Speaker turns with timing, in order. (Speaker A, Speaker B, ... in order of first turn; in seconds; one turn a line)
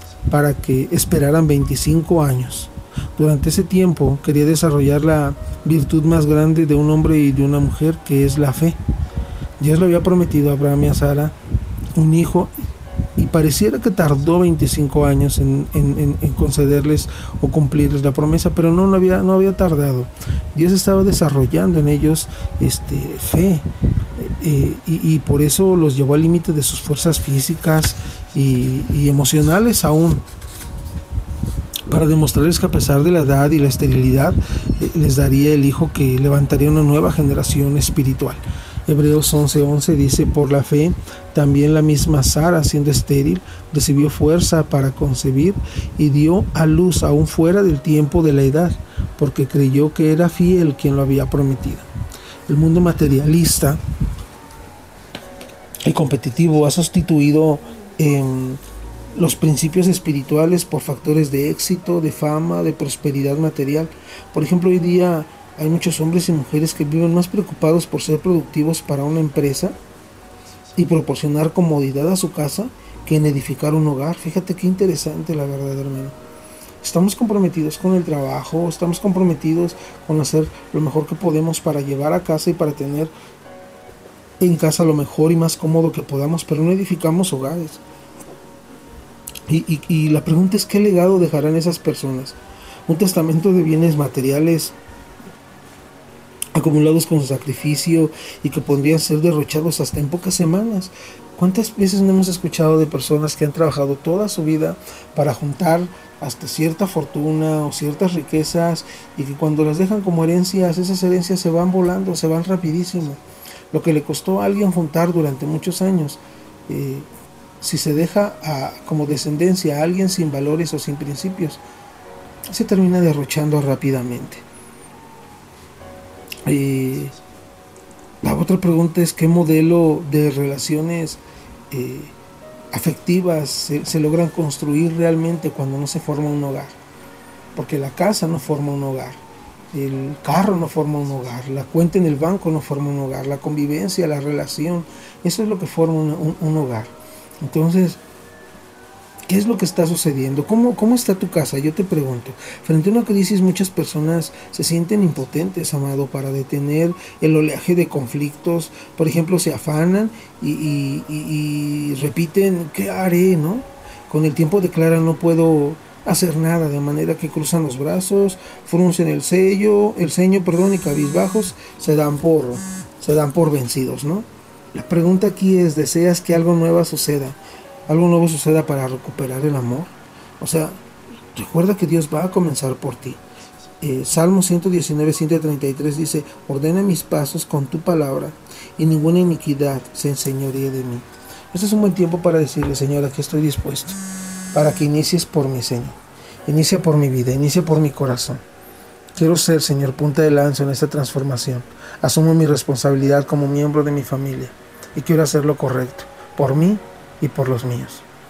Speaker A: 0.3-8.8
Speaker A: 9.6-11.3
Speaker A: 11.9-12.5
Speaker A: 13.2-30.2
Speaker A: 31.9-51.9
Speaker A: 52.5-53.8
Speaker A: 55.8-58.6
Speaker A: 59.1-69.7
Speaker A: 70.8-76.1
Speaker A: 76.8-83.1
Speaker A: 84.4-87.8
Speaker A: 89.5-94.8
Speaker A: 96.5-117.1
Speaker A: 117.6-121.6
Speaker A: 122.5-124.4
Speaker A: 126.5-127.2
Speaker A: 128.2-132.1
Speaker A: 132.7-136.8
Speaker A: 137.5-148.0
Speaker A: 149.3-180.8
Speaker A: 181.3-183.2
Speaker A: 183.8-194.0
Speaker A: 194.5-198.4
Speaker A: 199.1-208.1